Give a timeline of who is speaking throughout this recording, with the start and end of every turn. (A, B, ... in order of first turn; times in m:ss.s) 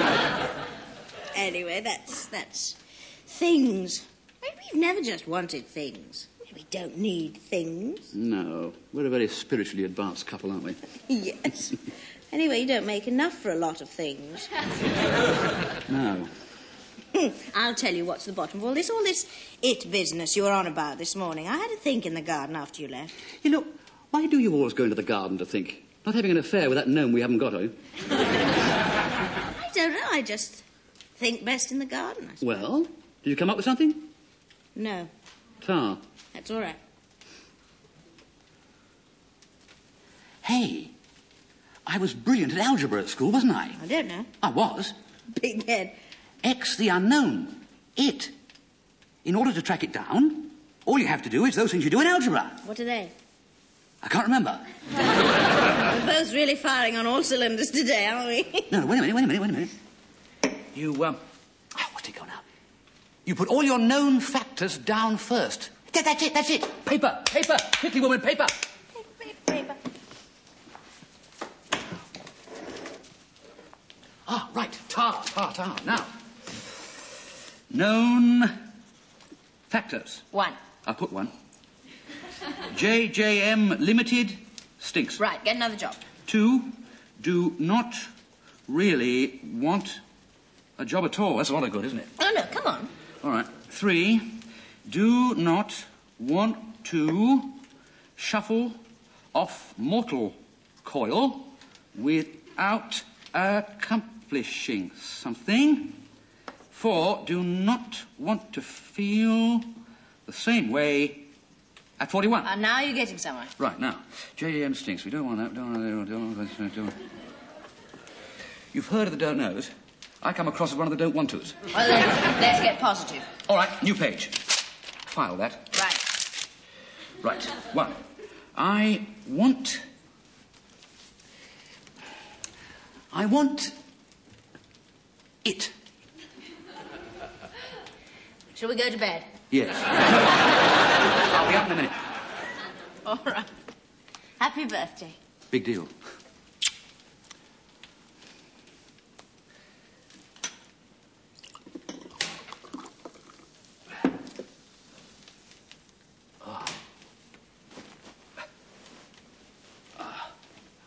0:01.3-0:08.1 A
0:08.1-0:10.9 B
0:11.0-0:14.5 A
0:15.9-0:16.3 B
0:17.1-0:23.1 A
0:23.4-0:27.8 B
0:29.5-0:30.6 A
0:31.2-0:32.6 A
0:32.4-0:34.1 B
0:34.7-0:35.1 A
0:35.6-0:36.0 B
0:36.3-0:36.8 A
0:40.4-0:40.9 B
0:41.8-0:43.8 B
0:43.8-0:44.3 A
0:44.4-0:44.9 B
0:45.3-0:45.9 A
0:46.4-0:48.3 B
0:49.2-0:52.6 B
0:52.6-0:53.1 A
0:54.0-0:54.6 B
0:55.8-0:58.7 A
0:58.7-0:59.7 B
1:00.7-1:01.2 B
1:01.7-1:02.4 B
1:03.2-1:08.6 B
1:09.0-1:09.8 A
1:14.2-1:16.1 B
1:17.7-1:18.5 B
1:19.7-1:20.3 B
1:20.8-1:21.3 B
1:22.7-1:25.2 B
1:25.2-1:26.0 A
1:26.2-1:28.1 B
1:28.7-1:30.0 B
1:30.8-1:32.1 B
1:32.2-1:32.9 A
1:33.2-1:37.6 B
1:38.2-1:38.8 B
1:39.3-1:46.0 B
1:46.7-1:51.3 B
1:52.0-1:52.5 B
1:52.4-1:53.5 A
1:53.6-1:57.0 B
1:58.7-2:01.6 B
2:01.7-2:03.3 A
2:03.4-2:04.4 B
2:05.0-2:05.8 B
2:05.7-2:06.0 A
2:07.2-2:08.0 B
2:08.5-2:09.8 B
2:13.1-2:13.7 B
2:15.4-2:15.7 B
2:18.5-2:19.3 A
2:19.5-2:20.5 B
2:21.2-2:21.9 B
2:23.0-2:23.5 A
2:24.4-2:25.2 A
2:25.5-2:25.9 B